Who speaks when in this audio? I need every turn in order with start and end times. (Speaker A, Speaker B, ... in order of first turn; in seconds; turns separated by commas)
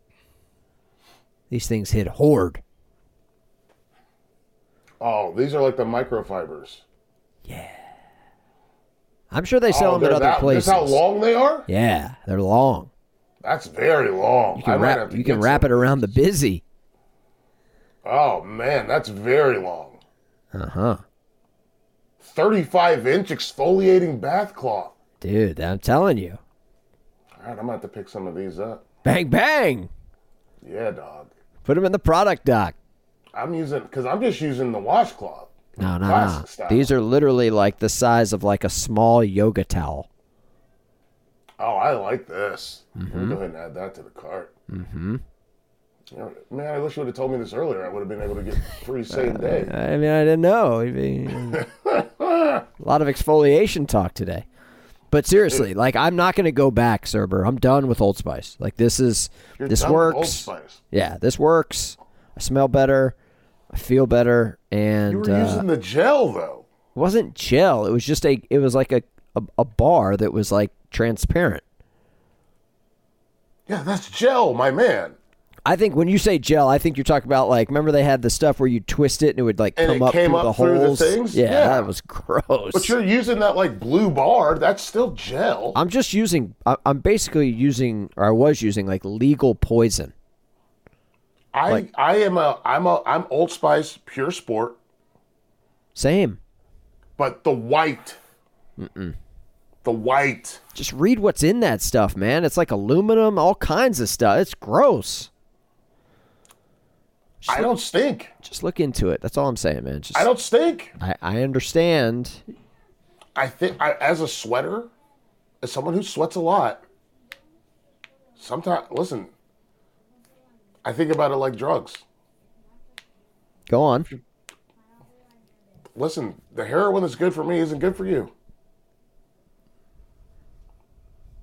Speaker A: 1.5-2.6, Speaker B: 5.0-6.8, Speaker A: 7.5-7.9, Speaker A: 9.3-11.0, Speaker B: 9.7-11.7, Speaker A: 11.7-12.9, Speaker B: 13.4-16.2, Speaker A: 14.6-16.6, Speaker B: 18.0-20.0, Speaker A: 20.5-21.0, Speaker B: 22.2-24.9, Speaker A: 25.2-26.4, Speaker B: 27.4-28.8, Speaker A: 29.0-29.9, Speaker B: 30.6-31.3, Speaker A: 31.6-32.8, Speaker B: 33.3-36.9, Speaker A: 35.8-40.1, Speaker B: 41.6-44.5, Speaker A: 43.0-43.4, Speaker A: 44.7-45.2, Speaker B: 46.1-49.7, Speaker A: 49.1-51.7, Speaker B: 51.5-52.6, Speaker A: 52.8-54.5, Speaker A: 55.1-63.1, Speaker B: 59.6-60.8, Speaker A: 63.7-65.7, Speaker B: 65.1-66.7, Speaker A: 67.0-71.6, Speaker B: 73.7-75.2, Speaker A: 75.7-83.0, Speaker B: 79.8-81.9, Speaker B: 82.7-85.8, Speaker A: 85.7-90.1, Speaker B: 91.5-94.8, Speaker A: 96.0-96.4, Speaker B: 97.2-98.2, Speaker A: 98.8-99.2, Speaker B: 99.8-100.6, Speaker A: 100.8-105.3, Speaker A: 107.4-107.7, Speaker B: 107.5-108.3, Speaker A: 108.4-110.3, Speaker B: 110.1-110.9, Speaker A: 111.0-112.5, Speaker B: 113.4-114.9, Speaker B: 115.6-116.8, Speaker B: 118.4-119.3, Speaker B: 120.8-122.0, Speaker A: 123.7-124.1, Speaker B: 126.0-128.3